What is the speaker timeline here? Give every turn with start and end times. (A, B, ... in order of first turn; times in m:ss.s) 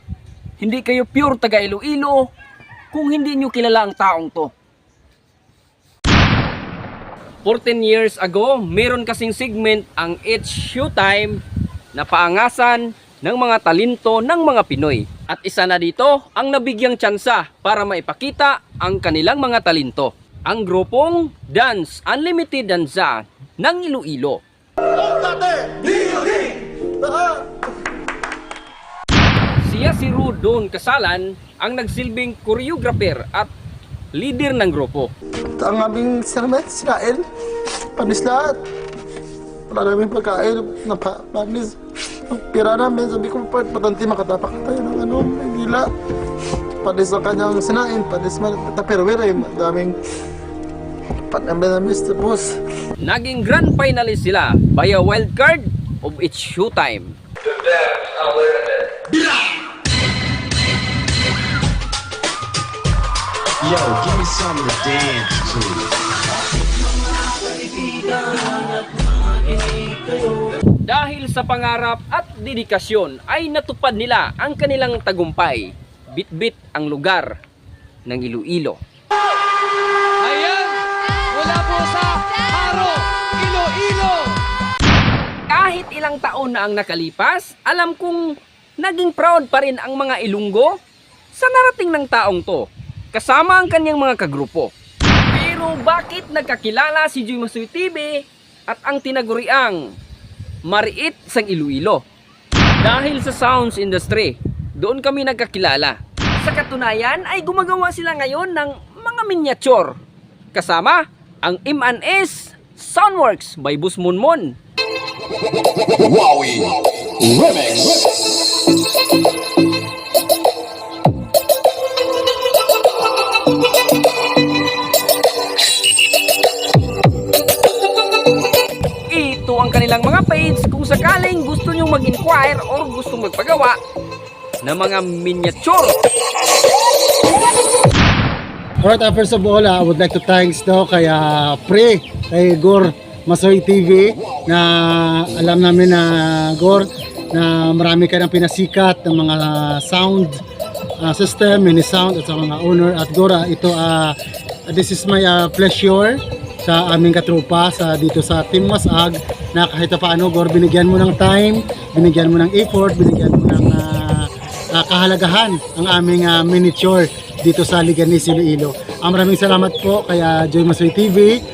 0:00.6-0:02.3 A
0:02.9-0:04.5 A
0:07.4-0:11.4 A
0:11.9-0:24.4 A
0:24.9-0:27.5 B
0:29.6-0:33.5 A
0:34.1-0:35.1 A
0:35.6-0:37.3 B
0:38.0-0:38.6 B
0:39.7-0:45.9 B
0:46.8-0:50.0 B
0:51.3-0:52.6 B
0:53.0-0:58.8 A
1:03.6-1:05.9 C
1:07.5-1:08.8 D
1:10.0-1:10.4 D
1:10.8-1:17.4 A
1:18.1-1:18.8 A
1:20.2-1:24.4 D
1:25.5-1:30.8 A
1:31.3-1:34.7 A
1:35.3-1:39.8 A
1:40.7-1:42.0 A
1:42.8-1:50.0 A
1:50.5-1:54.6 A
1:56.0-1:58.3 C
2:09.1-2:13.8 A
2:14.6-2:16.0 A
2:18.8-2:30.4 E
2:31.0-2:34.2 E
2:34.7-2:51.4 E